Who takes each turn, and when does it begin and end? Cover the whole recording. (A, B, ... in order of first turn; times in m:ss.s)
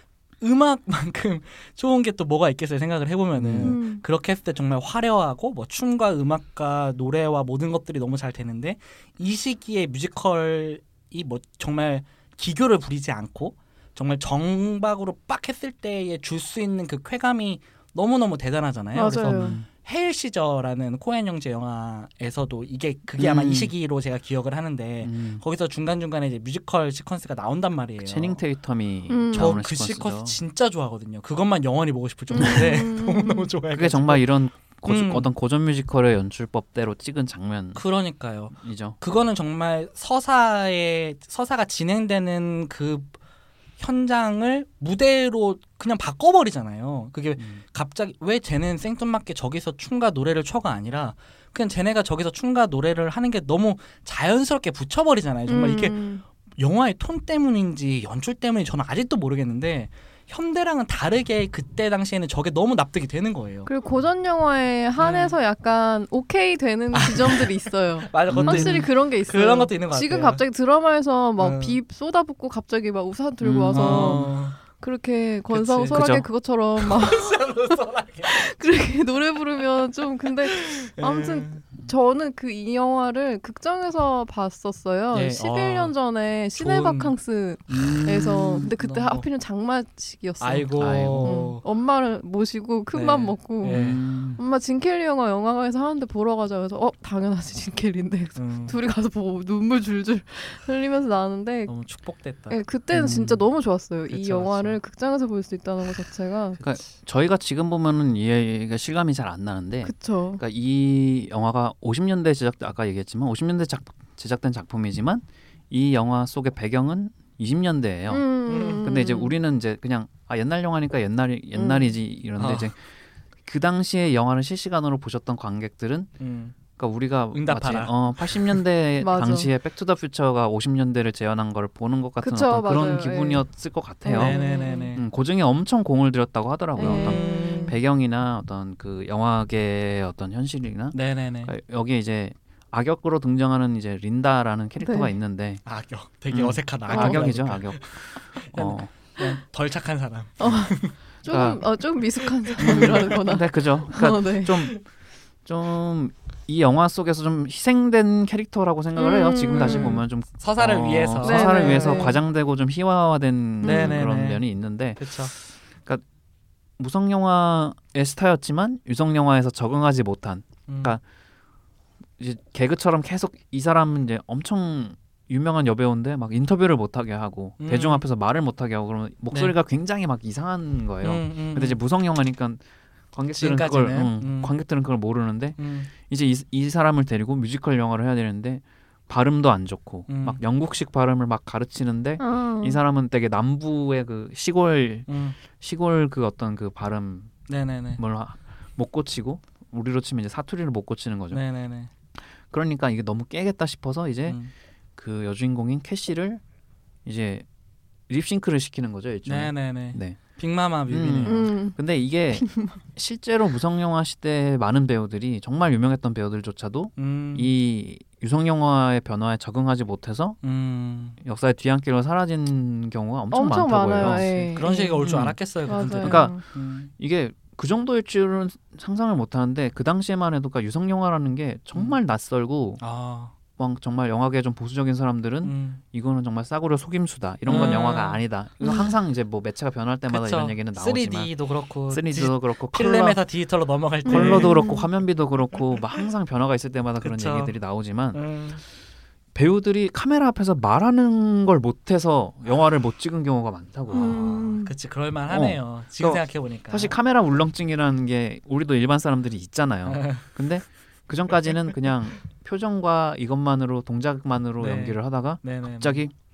0:00.4-0:28.4 A
0:03.4-0:03.8 B
0:03.6-0:04.0 C
0:19.0-0:19.6 C
0:19.2-0:19.7 B
0:23.2-0:23.7 B
0:25.0-0:25.4 B
0:28.0-0:30.4 B
0:29.1-0:29.6 C
0:29.3-0:34.3 A
0:32.3-0:33.5 C
0:33.7-0:37.8 B
0:34.8-0:35.3 A
0:37.8-0:43.2 A
0:38.5-0:39.0 B
0:43.8-0:56.0 A
0:55.5-0:56.2 C
0:56.6-1:03.7 A
1:03.7-1:41.8 C
1:05.0-1:05.4 A
1:06.9-1:10.4 A
1:08.3-1:08.9 B
1:11.4-1:11.8 A
1:13.4-1:14.3 B
1:13.7-1:14.6 A
1:15.5-1:16.0 A
1:15.9-1:16.3 B
1:16.8-1:18.5 A
1:19.6-1:21.6 A
1:25.1-1:25.9 A
1:26.6-1:27.2 A
1:27.7-1:28.7 B
1:28.6-1:29.2 A
1:30.4-1:31.6 A
1:30.8-1:31.4 B
1:32.9-1:34.0 A
1:33.7-1:34.4 B
1:38.4-1:38.8 A
1:41.7-1:42.6 A
1:42.5-1:46.6 C
1:42.9-1:43.4 B
1:44.1-1:44.8 A
1:46.6-1:46.9 A
1:46.6-1:58.3 B
1:49.8-1:50.4 C
1:58.1-1:59.3 C
1:58.5-1:58.9 A
1:58.8-2:02.9 B
2:01.6-2:02.0 C
2:02.4-2:02.7 A
2:03.4-2:06.1 B
2:06.2-2:06.6 A
2:06.7-2:14.4 B
2:07.3-2:08.6 A
2:09.0-2:09.5 C
2:12.2-2:13.4 C
2:14.0-2:15.0 C
2:14.1-2:15.0 A
2:14.9-2:25.6 B
2:16.8-2:17.8 C
2:16.8-2:17.7 A
2:20.9-2:21.5 A
2:24.8-2:25.1 C
2:25.6-2:31.0 A
2:26.3-2:28.9 B
2:26.9-2:27.3 C
2:30.4-2:34.7 C
2:31.3-2:31.6 B
2:32.2-2:33.4 A
2:32.6-2:34.8 B
2:35.4-2:46.0 B
2:39.0-2:40.0 C
2:39.5-2:42.2 A
2:41.2-2:42.2 C
2:43.6-2:44.0 C
2:43.6-2:44.4 A
2:45.0-2:45.3 A
2:46.8-2:51.0 B
2:50.7-2:51.0 A
2:52.2-3:02.6 B
2:57.6-2:58.0 A
3:01.0-3:01.8 A
3:03.1-3:17.4 B
3:03.4-3:04.5 A
3:05.6-3:05.9 A
3:10.1-3:10.4 A
3:12.2-3:12.8 C
3:15.1-3:15.4 A
3:17.5-3:18.0 A
3:18.0-3:21.4 B
3:21.3-3:21.9 A
3:22.5-3:24.4 B
3:24.3-3:24.5 A
3:25.0-3:26.4 B
3:27.0-3:27.5 B
3:28.1-3:30.2 B
3:29.3-3:31.4 A
3:30.9-3:40.4 B
3:31.2-3:31.8 C
3:32.3-3:32.8 C
3:37.0-3:37.5 A
3:40.4-3:41.2 A
3:41.2-3:46.4 B
3:43.3-3:46.4 C
3:44.0-3:46.9 A
3:47.0-3:52.8 B
3:52.8-3:53.3 A
3:53.6-4:01.3 B
3:55.4-3:55.8 A
3:57.5-3:58.8 A
3:58.6-3:58.9 C
4:00.1-4:04.7 A
4:01.9-4:03.2 B
4:04.1-4:04.9 C
4:04.1-4:08.2 B
4:07.0-4:07.5 A
4:08.1-4:08.6 A
4:09.4-4:14.2 B
4:13.9-4:16.9 A
4:13.9-4:14.7 C
4:15.3-4:26.1 B
4:19.8-4:20.3 A
4:24.6-4:26.0 A